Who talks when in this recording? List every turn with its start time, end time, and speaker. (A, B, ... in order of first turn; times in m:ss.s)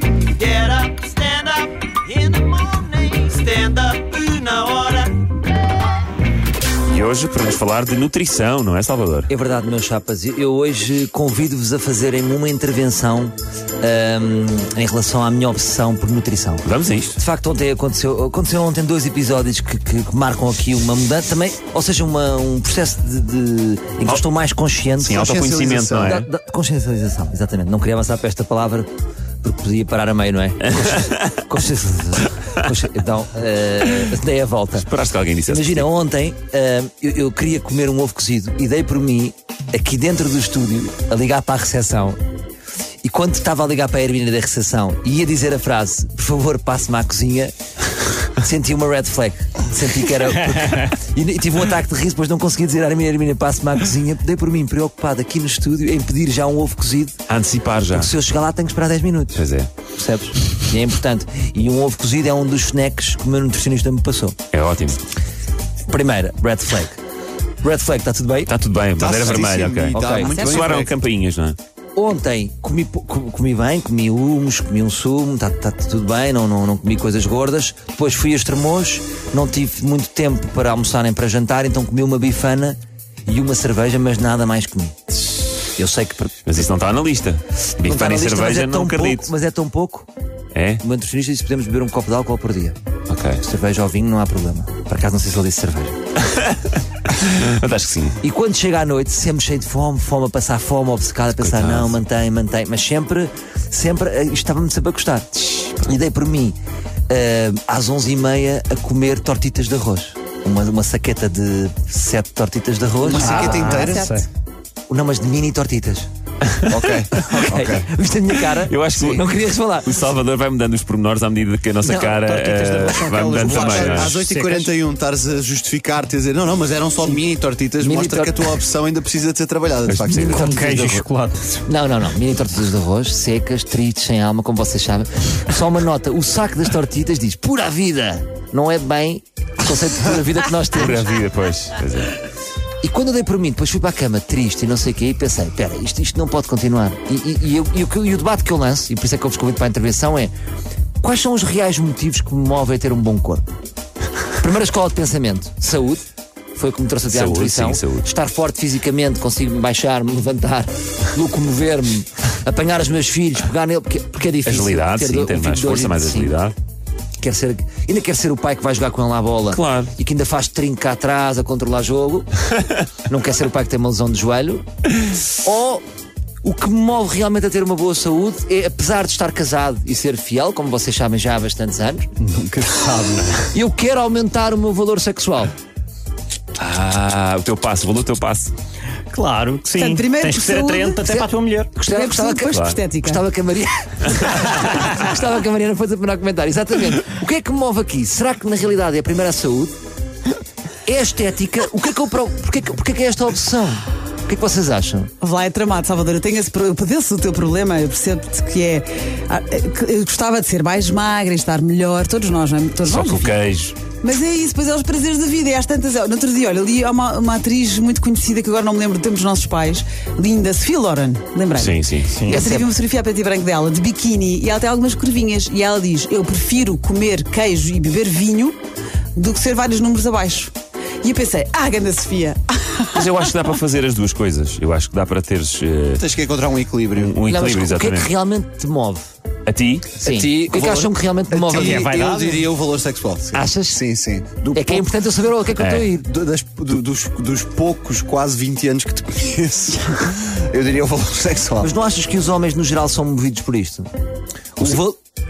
0:00.4-0:05.2 A
0:06.9-0:09.3 B
0:09.3-0:25.2 C
0:16.6-0:17.2 B
0:25.0-0:26.2 D
0:25.0-0:26.3 B
0:26.0-0:28.9 C
0:29.4-0:34.9 C
0:30.9-0:31.3 B
0:34.8-0:35.9 B
0:35.5-0:42.2 C
0:43.0-0:47.5 C
0:48.4-0:57.2 C
0:57.3-0:58.1 B
0:57.9-1:04.4 C
0:59.3-0:59.7 B
1:04.5-1:05.0 B
1:05.8-1:07.0 C
1:07.6-1:08.5 C
1:08.4-1:11.6 B
1:09.0-1:10.9 D
1:09.9-1:10.4 C
1:10.3-1:10.7 E
1:12.0-1:25.0 C
1:25.8-1:26.3 C
1:26.4-1:29.3 B
1:27.8-1:30.1 C
1:30.5-1:30.8 B
1:30.8-1:32.8 C
1:33.1-1:33.4 B
1:33.4-1:36.0 C
1:36.3-1:38.2 B
1:38.2-1:46.6 C
1:41.3-1:42.0 B
1:47.1-1:53.8 C
1:53.0-1:54.1 D
1:53.2-1:54.3 F
1:53.3-1:54.2 E
1:54.9-1:56.1 C
1:56.5-1:57.2 B
1:56.7-1:57.8 D
1:57.2-2:00.0 C
1:58.4-2:04.2 B
2:01.8-2:02.2 C
2:01.9-2:04.7 F
2:03.3-2:10.6 D
2:07.8-2:08.5 C
2:09.9-2:11.0 B
2:10.1-2:11.6 F
2:11.6-2:21.1 C
2:20.7-2:22.2 B
2:22.8-2:30.3 C
2:31.0-2:33.4 C
2:34.4-2:36.0 C
2:36.5-2:46.4 C
2:37.1-2:38.1 B
2:44.4-2:46.5 B
2:47.2-2:52.3 C
2:49.5-2:49.9 B
2:53.0-2:54.6 C
2:55.3-2:55.8 C
2:56.4-3:02.1 C
3:02.2-3:03.5 F
3:03.5-3:05.5 C
3:06.6-3:08.5 B
3:09.1-3:11.7 F
3:09.7-3:11.0 E
3:11.0-3:19.7 C
3:11.8-3:13.2 E
3:12.5-3:12.8 B
3:20.8-3:25.1 C
3:25.2-3:33.4 E
3:32.8-3:33.8 B
3:34.0-3:48.6 E
3:41.6-3:42.3 B
3:42.2-3:42.7 C
3:49.2-3:53.2 E
3:52.9-3:56.1 B
3:56.0-3:57.2 D
3:56.9-3:58.1 B
3:57.2-3:59.0 C
3:59.4-4:00.0 B
4:00.0-4:04.9 D
4:00.0-4:01.9 C
4:01.5-4:02.5 F
4:03.3-4:03.8 C
4:04.5-4:06.2 C
4:05.6-4:05.9 B
4:06.1-4:11.7 D
4:11.6-4:13.9 C
4:14.6-4:14.8 B
4:14.6-4:15.0 C